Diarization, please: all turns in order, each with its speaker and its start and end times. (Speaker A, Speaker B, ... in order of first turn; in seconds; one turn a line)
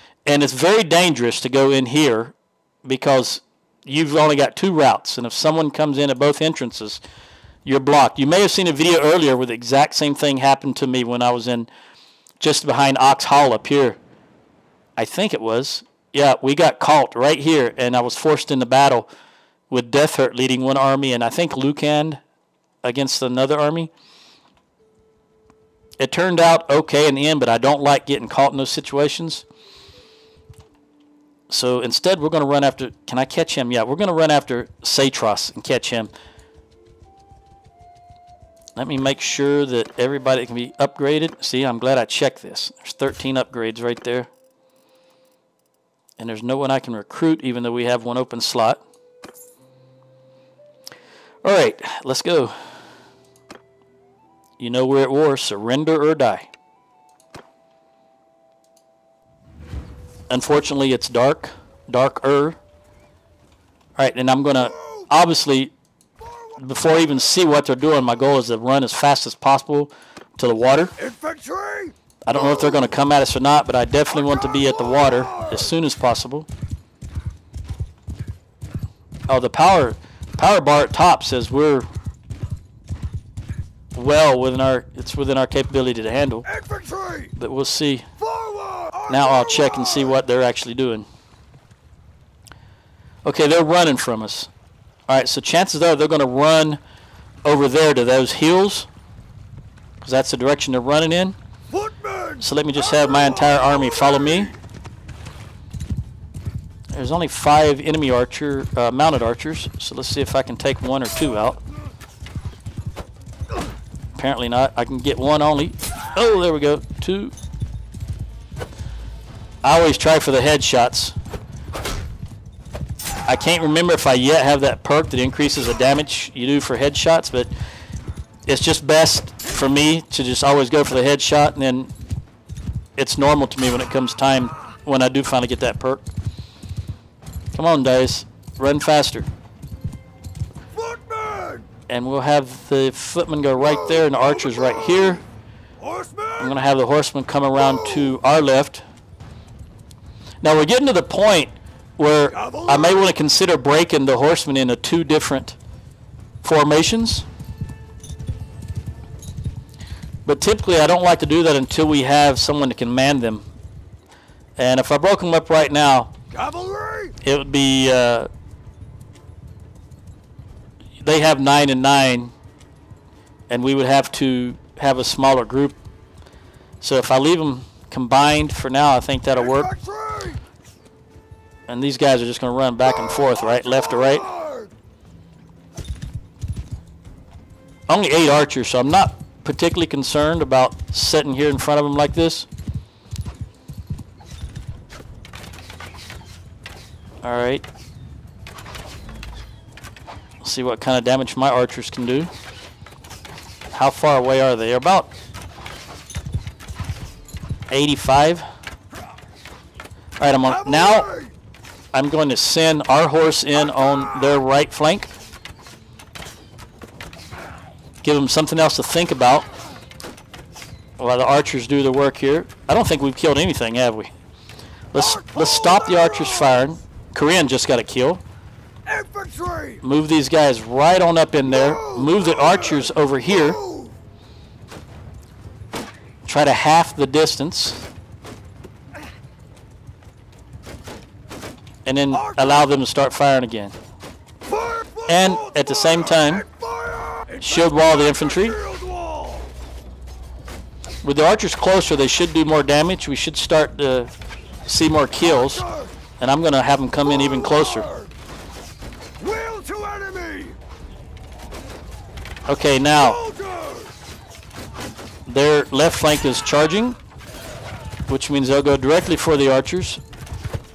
Speaker A: 0.2-7.0
Speaker A: 7.6-11.7
Speaker A: 12.4-14.0
Speaker A: 15.0-19.1
Speaker A: 19.7-22.2
Speaker A: 22.8-23.9
Speaker A: 26.0-29.4
Speaker A: 31.5-36.1
Speaker A: 38.8-44.3
Speaker A: 46.2-48.8
Speaker A: 51.4-52.5
Speaker A: 54.6-56.5
Speaker A: 60.3-62.6
Speaker A: 64.0-65.7
Speaker B: 64.7-64.9
Speaker A: 66.6-70.9
Speaker B: 71.0-72.9
Speaker A: 72.2-76.5
Speaker B: 74.1-75.7
Speaker A: 79.3-81.9
Speaker A: 83.9-86.5
Speaker B: 86.5-87.3
Speaker A: 87.4-88.0
Speaker B: 88.2-90.2
Speaker A: 89.1-91.0
Speaker A: 93.2-94.5
Speaker A: 95.1-96.8
Speaker A: 97.4-98.9
Speaker A: 100.0-101.3
Speaker B: 101.7-104.6
Speaker A: 102.4-104.5
Speaker A: 106.9-111.6
Speaker A: 114.1-117.3
Speaker A: 119.6-121.2
Speaker A: 123.3-127.5
Speaker A: 128.5-131.9
Speaker A: 133.0-136.1
Speaker A: 137.5-139.3
Speaker B: 140.7-141.7
Speaker A: 141.9-145.2
Speaker B: 143.5-145.2
Speaker B: 145.8-146.6
Speaker A: 146.4-148.8
Speaker B: 147.5-148.2
Speaker A: 150.4-155.6
Speaker B: 152.3-153.1
Speaker A: 156.4-157.2
Speaker A: 160.2-163.4
Speaker A: 164.6-166.1
Speaker B: 166.3-167.2
Speaker A: 167.2-168.3
Speaker A: 171.0-172.3
Speaker A: 173.5-175.8
Speaker A: 176.8-179.7
Speaker B: 179.3-180.4
Speaker A: 181.7-184.2
Speaker B: 182.8-184.7
Speaker A: 187.9-192.5
Speaker A: 197.2-197.6
Speaker A: 200.4-202.3
Speaker A: 203.7-205.1
Speaker A: 207.7-208.4
Speaker A: 210.2-211.1
Speaker B: 210.4-211.3
Speaker A: 211.9-215.1
Speaker A: 218.0-219.5
Speaker A: 221.0-224.1
Speaker A: 224.9-228.2
Speaker B: 224.9-226.7
Speaker B: 228.8-229.8
Speaker A: 229.8-233.6
Speaker B: 231.4-233.9
Speaker A: 236.2-237.8
Speaker A: 241.8-243.7
Speaker B: 242.1-242.7
Speaker B: 244.4-249.5
Speaker A: 245.1-246.4
Speaker A: 247.4-248.6
Speaker A: 251.0-254.1
Speaker A: 254.7-255.6
Speaker B: 255.2-255.9
Speaker A: 256.2-257.9
Speaker B: 257.0-258.1
Speaker B: 259.2-260.6
Speaker A: 262.5-263.2
Speaker B: 262.9-263.9
Speaker A: 265.3-267.0
Speaker A: 268.1-270.0